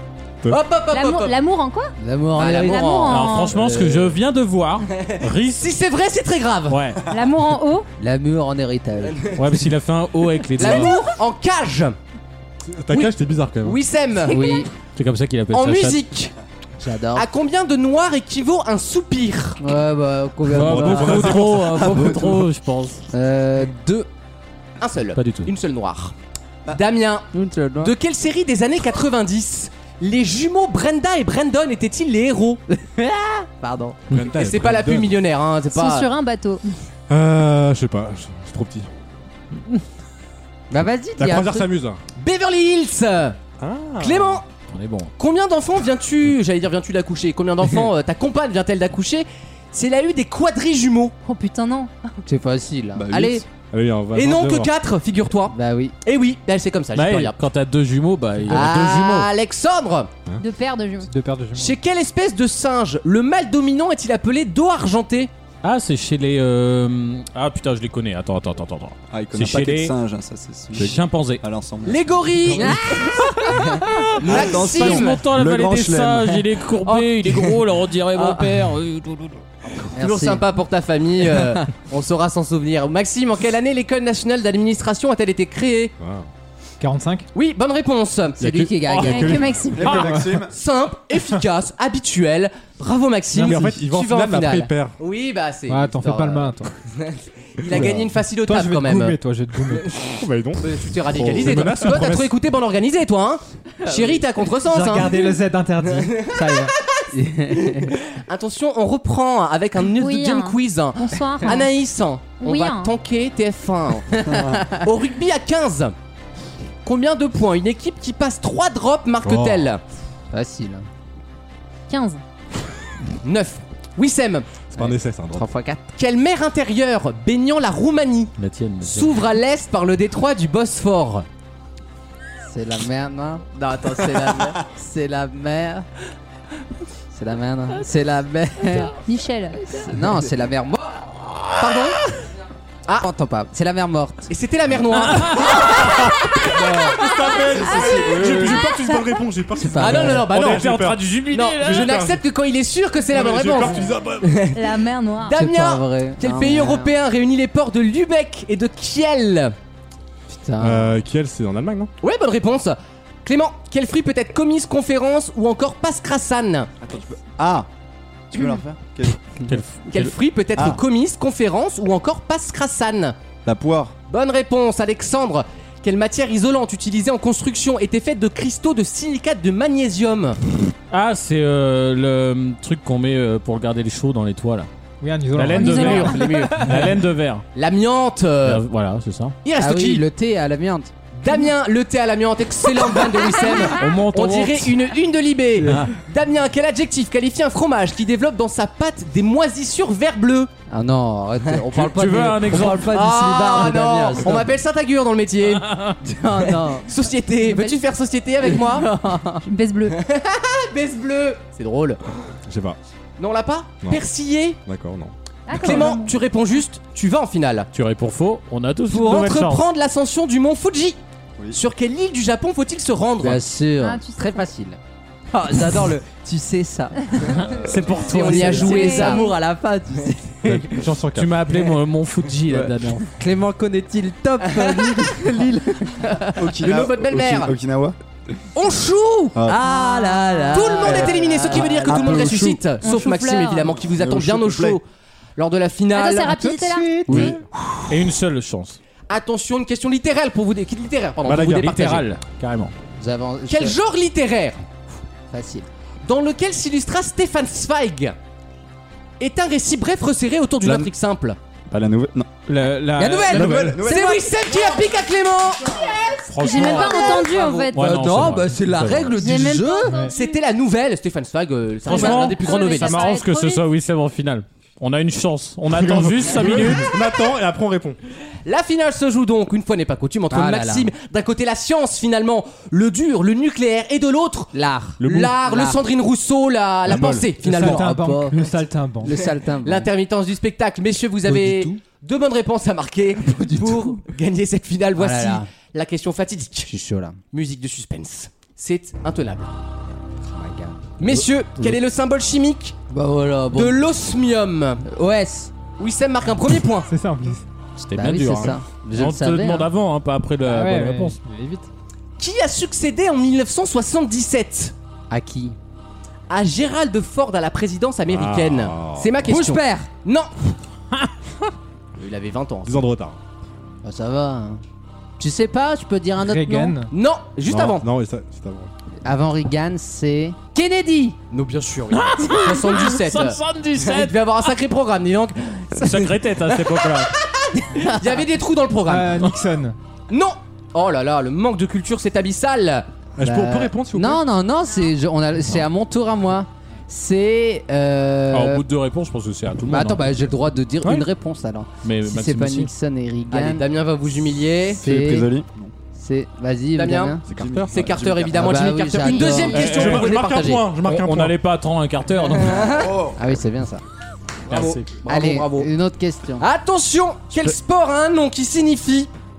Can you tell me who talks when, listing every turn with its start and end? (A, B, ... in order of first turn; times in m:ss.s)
0:00.5-0:01.4 A
0:00.9-0:01.9 B
0:02.0-0:04.2 C
0:02.4-0:03.2 A
0:02.6-0:03.5 B
0:03.1-0:05.7 D
0:05.1-0:06.8 A
0:06.7-0:07.0 D
0:07.1-0:07.9 B
0:08.0-0:09.3 C
0:09.4-0:11.0 D
0:10.6-0:12.0 A
0:12.7-0:13.8 E
0:12.9-0:14.6 A
0:14.3-0:14.7 C
0:14.3-0:14.6 B
0:15.0-0:16.0 D
0:15.5-0:16.3 A
0:16.8-0:17.3 C
0:17.1-0:19.6 A
0:19.6-0:22.2 C
0:20.5-0:23.0 D
0:20.5-0:21.9 E
0:21.8-0:22.4 F
0:23.1-0:24.1 C
0:24.8-0:26.2 A
0:25.2-0:25.5 D
0:26.7-0:27.3 A
0:27.3-0:27.9 C
0:27.8-0:32.6 A
0:32.7-0:34.0 C
0:34.1-0:35.2 E
0:34.2-0:36.1 A
0:35.7-0:36.7 B
0:37.1-0:38.9 E
0:40.7-0:41.7 C
0:41.2-0:42.0 E
0:42.2-0:43.4 A
0:43.6-0:44.4 E
0:44.0-0:44.4 A
0:44.7-0:45.1 D
0:45.2-0:51.1 A
0:51.2-0:52.2 B
0:52.2-0:53.4 C
0:53.0-0:53.4 F
0:53.7-0:54.7 E
0:54.1-0:57.4 A
0:55.5-0:56.0 C
0:57.0-0:59.3 D
0:58.5-1:00.1 A
1:00.4-1:01.1 B
1:01.1-1:01.8 G
1:01.5-1:05.3 A
1:05.6-1:10.0 D
1:09.1-1:12.6 F
1:10.8-1:11.4 D
1:11.8-1:13.2 A
1:12.5-1:13.8 C
1:13.9-1:19.4 D
1:14.2-1:15.2 A
1:14.2-1:16.4 F
1:16.9-1:17.6 A
1:18.2-1:18.5 A
1:19.9-1:25.9 A
1:19.9-1:20.5 C
1:26.0-1:26.3 E
1:26.8-1:27.3 G
1:27.3-1:28.5 A
1:28.4-1:29.5 C
1:28.8-1:30.1 D
1:29.0-1:30.0 B
1:29.7-1:30.5 F
1:29.9-1:30.3 G
1:30.4-1:39.2 A
1:33.4-1:35.0 E
1:33.4-1:33.7 G
1:35.7-1:36.7 G
1:37.7-1:38.0 E
1:37.8-1:40.0 G
1:40.1-1:42.4 E
1:40.6-1:45.4 A
1:43.9-1:44.2 C
1:44.6-1:46.7 G
1:46.0-1:46.4 A
1:47.1-1:47.9 C
1:47.7-1:55.9 A
1:49.9-1:51.7 B
1:52.4-1:53.0 B
1:54.2-1:54.8 C
1:54.3-1:54.6 F
1:56.8-1:59.8 A
1:59.2-1:59.7 E
2:00.3-2:00.9 C
2:01.9-2:02.2 B
2:03.2-2:04.5 A
2:04.7-2:05.4 E
2:04.8-2:05.9 C
2:06.0-2:11.3 A
2:08.4-2:09.2 D
2:12.5-2:15.9 C
2:17.1-2:18.9 C
2:18.9-2:19.8 B
2:19.7-2:21.0 C
2:21.6-2:22.0 A
2:23.0-2:24.3 C
2:24.3-2:25.8 A
2:24.9-2:26.0 D
2:26.4-2:32.2 E
2:26.9-2:29.2 B
2:27.6-2:28.6 F
2:29.6-2:30.4 C
2:29.7-2:30.7 A
2:30.4-2:32.0 D
2:31.3-2:34.6 A
2:33.1-2:34.5 E
2:34.5-2:35.4 B
2:35.3-2:39.5 A
2:35.4-2:37.0 C
2:40.3-2:41.0 C
2:40.6-2:41.9 E
2:42.0-2:46.7 A
2:46.8-2:47.7 F
2:48.3-2:49.2 F
2:49.5-2:50.2 D
2:49.9-2:53.2 A
2:53.4-2:54.0 F
2:54.1-3:00.4 A
3:00.9-3:04.7 D
3:05.0-3:06.7 G
3:05.3-3:07.4 D
3:05.5-3:06.2 B
3:05.7-3:06.9 A
3:07.6-3:08.6 A
3:08.4-3:09.4 D
3:09.4-3:10.1 A
3:09.6-3:11.0 C
3:11.2-3:20.5 A
3:13.6-3:14.8 D
3:15.6-3:15.9 D
3:20.7-3:24.5 C
3:21.7-3:22.9 D
3:22.8-3:25.8 A
3:25.6-3:26.0 D
3:26.0-3:26.9 C
3:26.9-3:28.9 A
3:27.4-3:27.8 B
3:28.5-3:29.4 C
3:29.4-3:30.0 B
3:30.0-3:32.0 A
3:32.5-3:32.8 E
3:33.2-3:34.6 A
3:34.7-3:35.1 E
3:35.5-3:36.2 B
3:35.5-3:37.7 A
3:37.7-3:39.7 D
3:38.9-3:41.0 A
3:41.5-3:43.4 A
3:43.2-3:44.8 C
3:43.8-3:44.5 B
3:45.3-3:50.8 C
3:47.3-3:48.8 D
3:47.4-3:48.1 F
3:48.0-3:49.2 A
3:48.6-3:49.3 B
3:50.5-3:51.4 E
3:50.6-3:53.1 D
3:52.5-3:56.5 C
3:54.4-3:55.0 A
3:56.4-3:58.0 F
3:56.6-3:57.6 A
3:58.6-3:59.4 A
3:59.4-3:59.6 F
3:59.5-4:02.3 C
3:59.6-4:00.8 B
4:00.5-4:04.8 A
4:00.8-4:02.6 F
4:02.8-4:03.8 B
4:03.8-4:04.8 F
4:05.4-4:07.3 A
4:05.9-4:07.1 B
4:07.1-4:07.4 D
4:07.9-4:08.8 D
4:09.1-4:12.1 A
4:11.2-4:12.7 D
4:13.0-4:13.8 C
4:13.5-4:14.6 A
4:15.3-4:15.7 C
4:16.0-4:18.2 A
4:19.2-4:21.4 A
4:21.7-4:22.3 F
4:22.5-4:23.8 D
4:23.0-4:24.3 C
4:23.3-4:24.3 F
4:23.8-4:25.9 A
4:26.3-4:27.2 D
4:26.4-4:27.8 B
4:26.5-4:30.1 C
4:27.1-4:27.6 A
4:27.7-4:29.2 D
4:29.2-4:30.2 B
4:30.1-4:33.1 A
4:31.9-4:33.6 B
4:31.9-4:36.9 D
4:35.7-4:38.0 E
4:38.4-4:44.5 A
4:40.3-4:40.9 C
4:44.5-4:45.8 C
4:45.0-4:47.9 A
4:46.9-4:47.4 E
4:47.4-4:48.5 C
4:47.4-4:49.2 G
4:49.0-4:49.9 C
4:49.6-4:56.7 A
4:51.3-4:51.7 C
4:53.3-4:53.9 C
4:55.0-4:55.5 C
4:56.7-4:57.2 C
4:57.3-4:59.6 A
5:00.3-5:00.9 C
5:01.0-5:02.8 A
5:01.1-5:01.8 D
5:02.9-5:03.8 C
5:03.5-5:04.8 A
5:04.9-5:05.5 C
5:05.8-5:06.9 A
5:06.9-5:07.4 G
5:07.8-5:11.2 D
5:08.0-5:09.7 C
5:10.4-5:11.7 G
5:12.2-5:14.8 A
5:15.1-5:15.6 C
5:16.3-5:20.3 A
5:18.1-5:19.2 E
5:19.2-5:19.9 C
5:22.0-5:22.8 A
5:22.7-5:23.2 E
5:23.8-5:24.6 C
5:25.2-5:26.8 C
5:26.2-5:26.9 G
5:26.9-5:27.9 A
5:27.5-5:28.7 E
5:29.0-5:31.2 C
5:31.3-5:36.9 A
5:31.9-5:34.5 D
5:35.8-5:37.1 D
5:37.8-5:39.2 A
5:38.9-5:39.8 G
5:40.1-5:42.9 A
5:43.2-5:44.2 E
5:43.2-5:48.6 C
5:48.3-5:50.1 D
5:49.7-5:53.7 C
5:50.8-5:51.1 D
5:51.8-5:52.7 D
5:53.3-5:54.8 A
5:54.8-5:55.3 C
5:54.8-5:55.7 F
5:56.0-5:57.2 C
5:56.8-5:57.2 A
5:57.3-5:59.2 F
5:57.3-5:57.8 E
5:57.7-6:00.8 A
5:58.3-5:59.8 C
5:59.5-6:00.2 D
5:59.6-6:01.4 E
6:00.8-6:02.8 D
6:02.4-6:02.9 A
6:02.7-6:03.2 F
6:03.2-6:03.8 C
6:04.5-6:04.9 D
6:04.5-6:05.7 A
6:05.0-6:06.4 C
6:06.4-6:09.1 A